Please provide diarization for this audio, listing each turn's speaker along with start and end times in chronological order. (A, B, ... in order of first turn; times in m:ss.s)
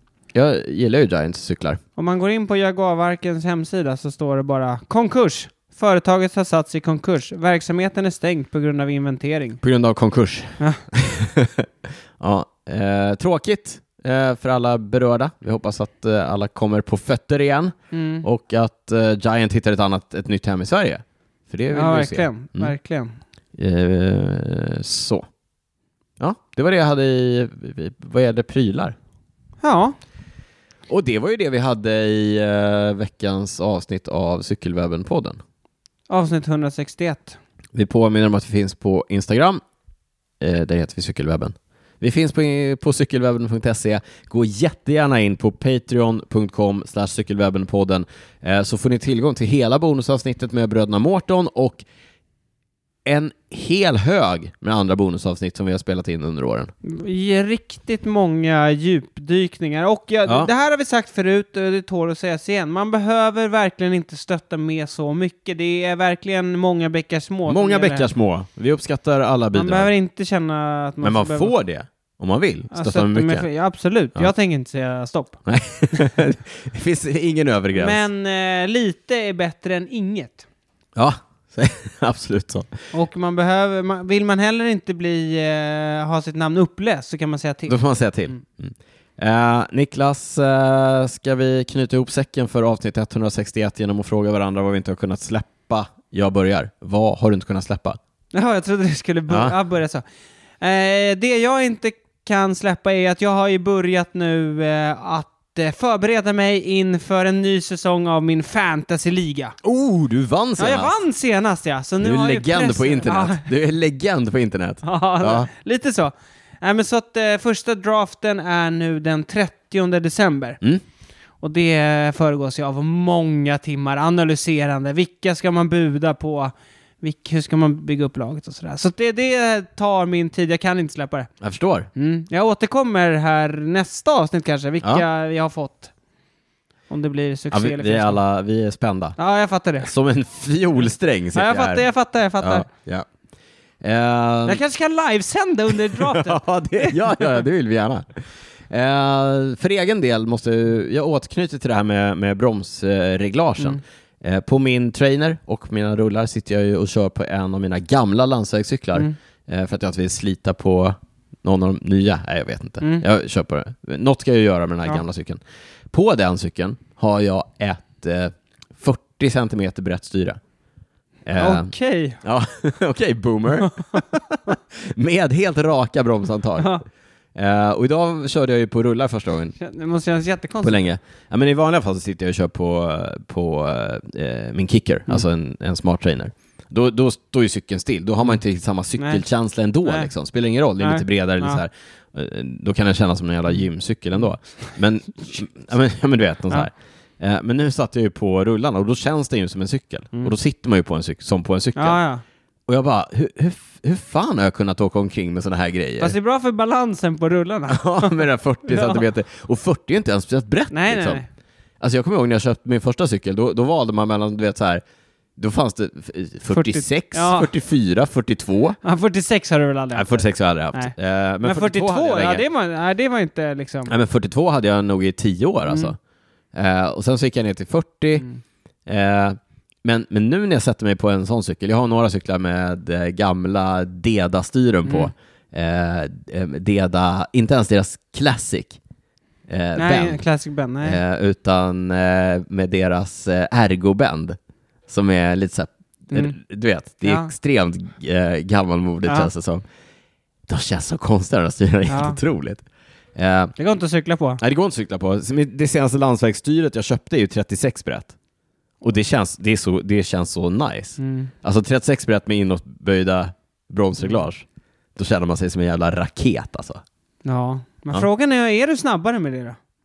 0:00.3-0:01.8 A
0:02.0-0:09.6 B
0:09.6-0:11.7 A
0:12.2-0:22.7 A
0:17.9-0:18.3 B
0:21.7-0:23.2 B
0:23.6-0:25.3 A
0:26.2-0:29.0 A
0:29.6-0:30.0 B
0:30.9-0:35.4 A
0:36.1-0:37.4 B
0:37.8-0:39.6 A
0:40.4-0:51.8 A
0:53.1-0:56.7 A
0:56.8-1:08.1 B
1:07.5-1:09.9 A
1:09.6-1:11.5 B
1:11.0-1:13.5 A
1:12.7-1:15.4 B
1:15.5-1:18.0 A
1:17.8-1:20.4 B
1:21.0-1:22.7 A
1:22.9-1:28.4 B
1:27.7-1:38.0 A
1:38.3-1:40.0 B
1:39.3-1:39.6 A
1:40.6-1:49.6 B
1:49.6-1:50.9 A
1:50.6-1:53.5 B
1:52.0-1:55.5 A
1:54.8-2:00.6 B
2:01.4-2:11.3 B
2:11.4-2:11.9 A
2:12.0-2:15.9 B
2:16.9-2:18.2 B
2:17.5-2:19.2 A
2:19.2-2:19.9 B
2:19.8-2:21.8 A
2:21.3-2:22.7 B
2:22.4-2:23.1 A
2:23.8-2:24.6 A
2:24.5-2:27.0 B
2:26.0-2:45.4 A
2:45.9-2:50.4 A
2:51.3-2:51.7 A
2:51.4-2:52.2 B
2:52.2-2:56.7 A
2:53.6-2:54.0 B
2:56.6-2:56.8 B
2:57.4-2:59.6 A
2:59.6-3:00.8 B
3:00.6-3:22.0 A
3:09.0-3:09.2 B
3:09.8-3:10.1 B
3:10.8-3:11.6 B
3:21.8-3:22.2 B
3:22.7-3:26.2 A
3:26.0-3:29.0 B
3:27.7-3:31.2 A
3:30.7-3:31.3 B
3:31.8-3:34.8 A
3:35.4-3:38.8 A
3:36.5-3:37.5 B
3:38.8-3:43.9 B
3:40.0-3:42.4 A
3:43.9-3:46.0 A
3:45.7-3:45.9 B
3:46.5-3:48.2 A
3:48.9-3:58.8 A
3:54.8-3:55.1 B
3:59.5-4:00.2 A
3:59.8-4:01.0 B
4:00.8-4:04.4 A
4:04.9-4:09.6 A
4:07.0-4:07.3 B
4:10.5-4:12.6 A
4:11.9-4:12.2 B
4:13.2-4:13.5 A
4:13.6-4:14.4 B
4:14.4-4:18.2 A
4:18.8-4:24.4 A
4:21.0-4:21.3 B
4:25.0-4:26.8 A
4:27.2-4:29.6 B